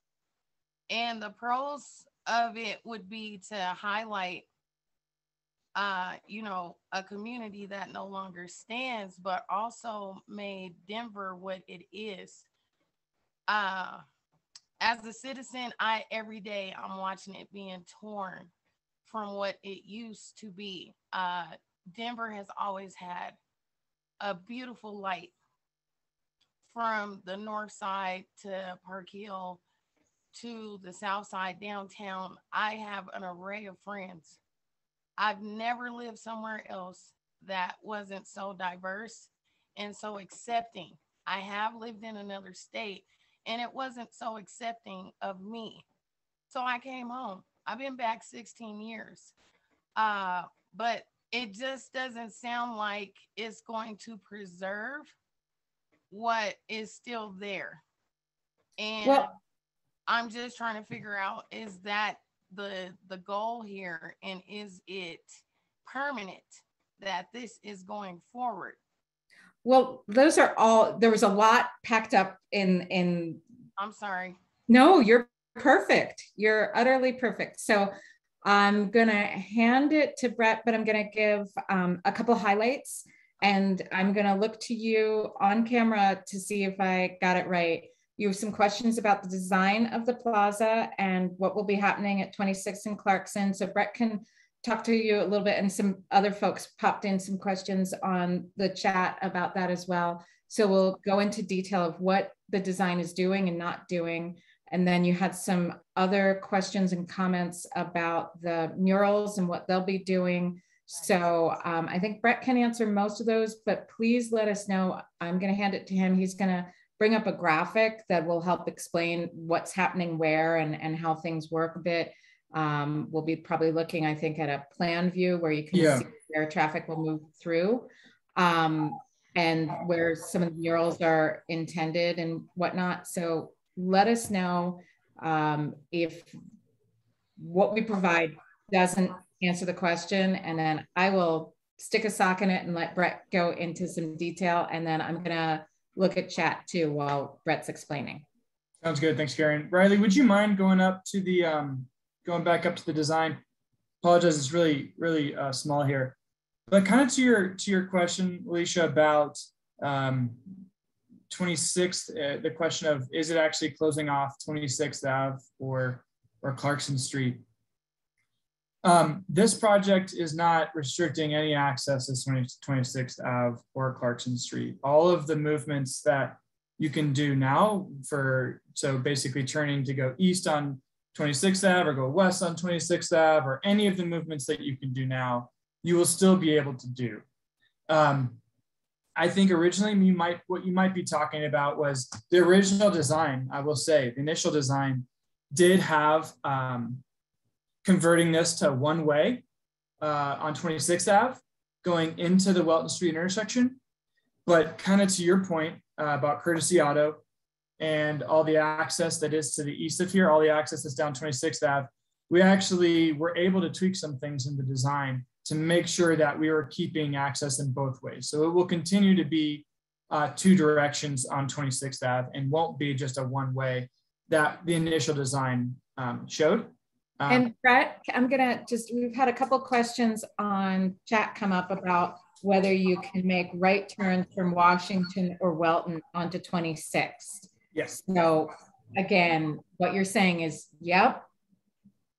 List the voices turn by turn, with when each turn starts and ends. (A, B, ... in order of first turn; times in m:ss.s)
0:00.9-0:04.5 A
0:05.7-0:12.4 A
0:13.5-0:14.0 A
0:14.8-0:18.5 A
0:19.0-0:23.4 A
0:24.2-0:25.3 A
0:26.7-0:29.6 A
0:30.3-0:34.4 A
0:35.2-0:45.8 A
0:46.5-0:49.3 A
0:50.0-0:55.1 A
0:56.1-0:57.8 A
0:58.8-0:59.3 A
0:59.0-0:59.3 B
1:00.1-1:08.8 A
1:09.6-1:13.4 B
1:13.8-1:14.4 A
1:14.7-1:17.9 B
1:18.4-2:16.4 B
2:05.7-2:06.0 C
2:17.4-2:28.2 B
2:28.8-2:33.4 C
2:34.0-2:36.2 C
2:36.7-2:40.6 C
2:41.3-2:47.4 C
2:48.8-3:07.2 C
3:07.9-3:08.4 C
3:09.2-3:17.0 C
3:17.8-3:19.4 C
3:20.0-3:23.8 C
3:24.4-3:27.2 C
3:27.8-3:47.5 C
3:47.3-3:57.5 B
3:57.7-3:58.0 C
3:58.1-4:01.2 B